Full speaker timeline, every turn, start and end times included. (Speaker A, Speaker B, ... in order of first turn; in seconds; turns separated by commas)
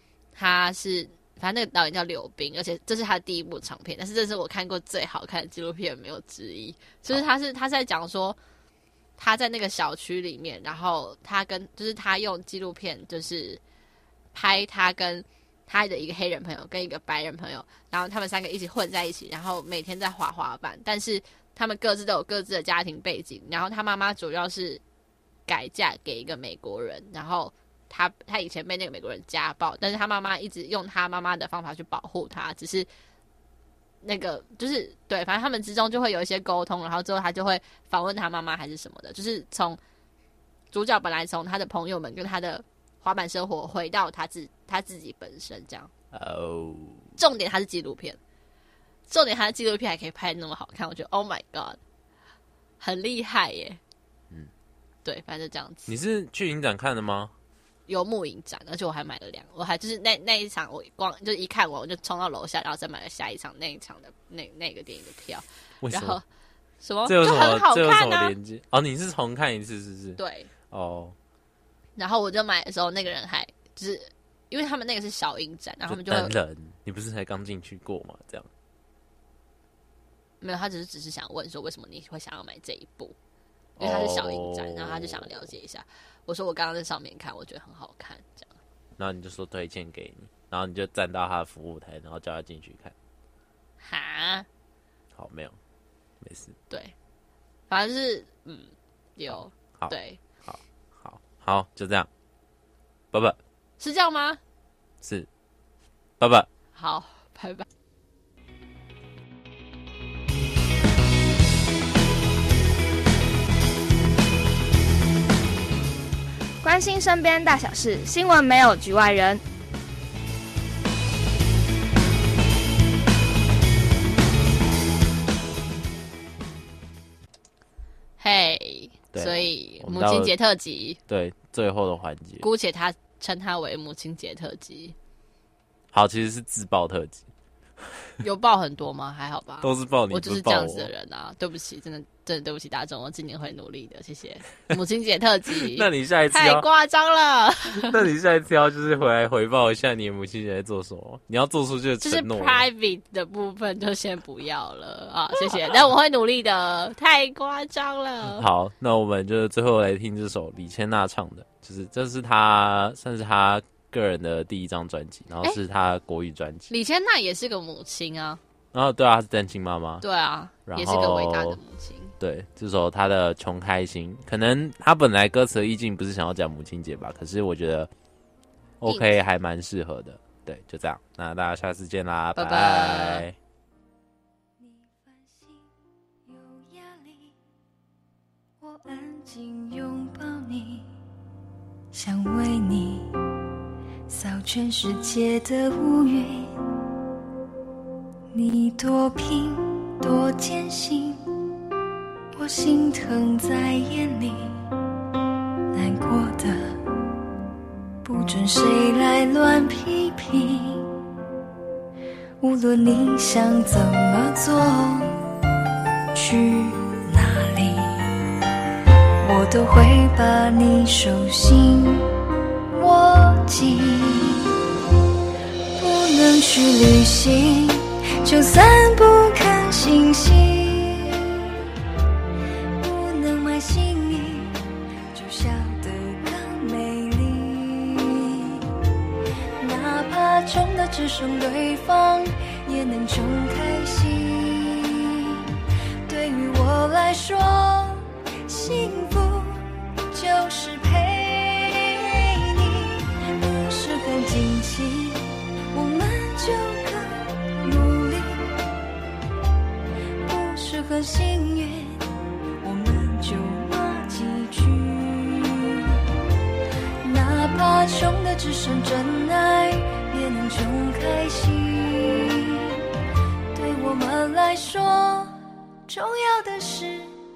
Speaker A: 0.3-8.4, Speaker A: 9.2-13.6, Speaker A: 14.3-24.8, Speaker A: 25.5-32.9, Speaker A: 34.0-39.8, Speaker A: 40.7-45.9, Speaker B: 46.1-47.1, Speaker A: 47.2-48.2, Speaker A: 49.1-51.8, Speaker A: 52.8-53.8, Speaker A: 55.0-55.9, Speaker B: 55.9-57.3, Speaker A: 57.9-66.2, Speaker B: 65.8-66.2, Speaker A: 66.8-68.3, Speaker B: 67.0-70.2, Speaker A: 70.2-70.5, Speaker B: 70.7-71.1, Speaker A: 72.0-76.3, Speaker B: 75.9-78.5, Speaker A: 80.4-83.1, Speaker B: 83.8-85.5, Speaker A: 83.8-88.5, Speaker B: 89.0-92.9, Speaker A: 93.8-94.5, Speaker B: 95.1-95.5, Speaker B: 96.2-96.5, Speaker A: 97.7-100.2, Speaker B: 99.8-102.1, Speaker B: 103.1-103.4, Speaker A: 103.8-104.4, Speaker B: 105.0-105.3, Speaker B: 106.2-106.5, Speaker A: 106.7-107.7, Speaker C: 116.6-119.4, Speaker A: 128.2-131.0, Speaker B: 129.1-130.3, Speaker B: 131.1-132.4, Speaker A: 132.4-134.9, Speaker B: 135.9-137.2, Speaker A: 138.2-148.0, Speaker B: 139.6-140.9, Speaker B: 145.6-146.7, Speaker B: 147.8-152.7, Speaker A: 152.0-158.4, Speaker B: 158.2-166.7, Speaker A: 166.7-168.4, Speaker B: 168.7-170.0, Speaker A: 170.0-172.1, Speaker B: 170.7-171.6, Speaker B: 172.2-177.9, Speaker B: 178.8-183.3, Speaker A: 178.8-179.2, Speaker A: 182.3-183.2, Speaker D: 184.6-185.7, Speaker D: 186.2-187.4, Speaker D: 188.6-190.9, Speaker D: 191.9-193.1, Speaker D: 194.1-196.6, Speaker D: 198.3-201.2, Speaker D: 202.3-204.6, Speaker D: 205.7-206.7, Speaker D: 208.0-210.9, Speaker D: 212.4-215.1, Speaker D: 216.1-218.0, Speaker D: 219.2-222.1, Speaker D: 222.7-224.5, Speaker D: 225.8-231.2, Speaker D: 232.8-234.5, Speaker D: 235.1-238.6, Speaker D: 239.6-245.4, Speaker D: 246.1-258.5, Speaker D: 260.2-262.0, Speaker D: 262.6-265.9, Speaker D: 267.0-272.7, Speaker D: 273.5-275.4, Speaker D: 275.9-277.2